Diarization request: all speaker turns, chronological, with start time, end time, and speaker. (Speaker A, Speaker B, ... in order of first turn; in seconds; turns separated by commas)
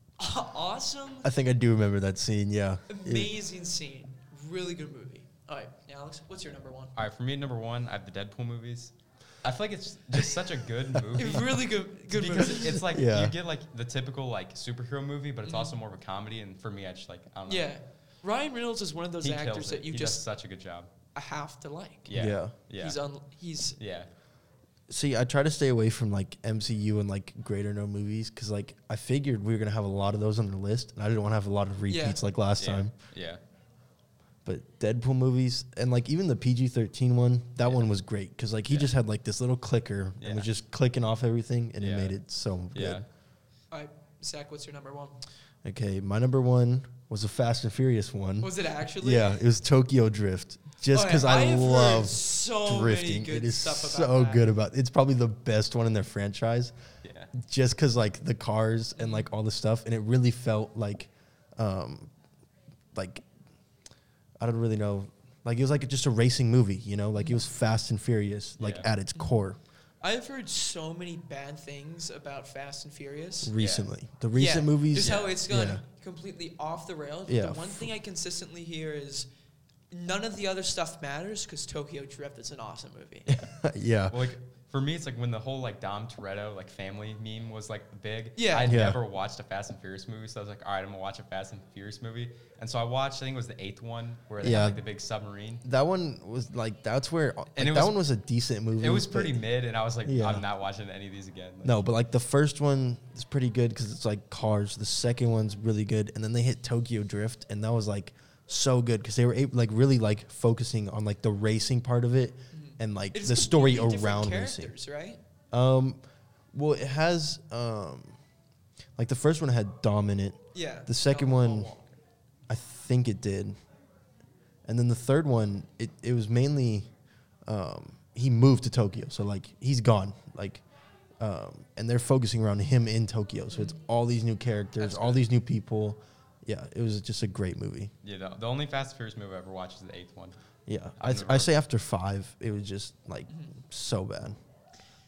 Speaker A: 0.2-1.3, Speaker B: 1.2-3.3, Speaker A: 2.9-7.0, Speaker C: 7.0-17.7, Speaker A: 11.2-12.8, Speaker B: 12.5-13.3, Speaker A: 15.4-15.8, Speaker A: 17.5-20.3, Speaker C: 19.2-20.9, Speaker A: 21.1-22.2, Speaker C: 22.1-23.0, Speaker B: 22.1-22.6, Speaker A: 22.8-23.8, Speaker C: 23.8-24.1, Speaker B: 24.9-32.9, Speaker A: 31.9-32.2, Speaker C: 32.6-33.4, Speaker B: 34.5-43.1, Speaker C: 37.6-37.9, Speaker C: 38.7-38.9, Speaker C: 40.2-40.5, Speaker C: 41.8-42.2, Speaker C: 42.7-43.1, Speaker A: 43.7-45.2, Speaker B: 45.6-56.8, Speaker A: 48.4-49.5, Speaker A: 50.9-54.5, Speaker C: 57.0-57.3, Speaker B: 57.3-62.1, Speaker A: 59.0-59.3, Speaker B: 63.0-63.2, Speaker B: 64.4-69.6, Speaker C: 68.6-68.9, Speaker A: 70.0-73.5, Speaker B: 73.4-75.8, Speaker C: 73.6-73.9, Speaker A: 74.3-79.3, Speaker C: 75.0-75.4, Speaker B: 77.3-77.9, Speaker A: 79.9-83.5, Speaker B: 83.3-84.2, Speaker C: 84.1-95.6, Speaker A: 88.4-88.8, Speaker B: 88.7-89.0, Speaker B: 94.4-94.8, Speaker B: 95.6-99.4, Speaker C: 97.5-98.0, Speaker C: 98.8-101.8, Speaker B: 100.0-100.5, Speaker B: 101.6-114.7, Speaker A: 112.5-115.2, Speaker B: 115.5-116.0, Speaker B: 116.5-118.2, Speaker B: 119.0-121.7, Speaker A: 120.5-122.0, Speaker B: 122.5-123.6, Speaker B: 124.7-126.9, Speaker B: 127.5-130.6, Speaker B: 131.2-137.9, Speaker A: 133.5-133.8, Speaker A: 134.8-135.2, Speaker C: 138.0-140.4, Speaker B: 140.7-144.4, Speaker C: 141.0-141.5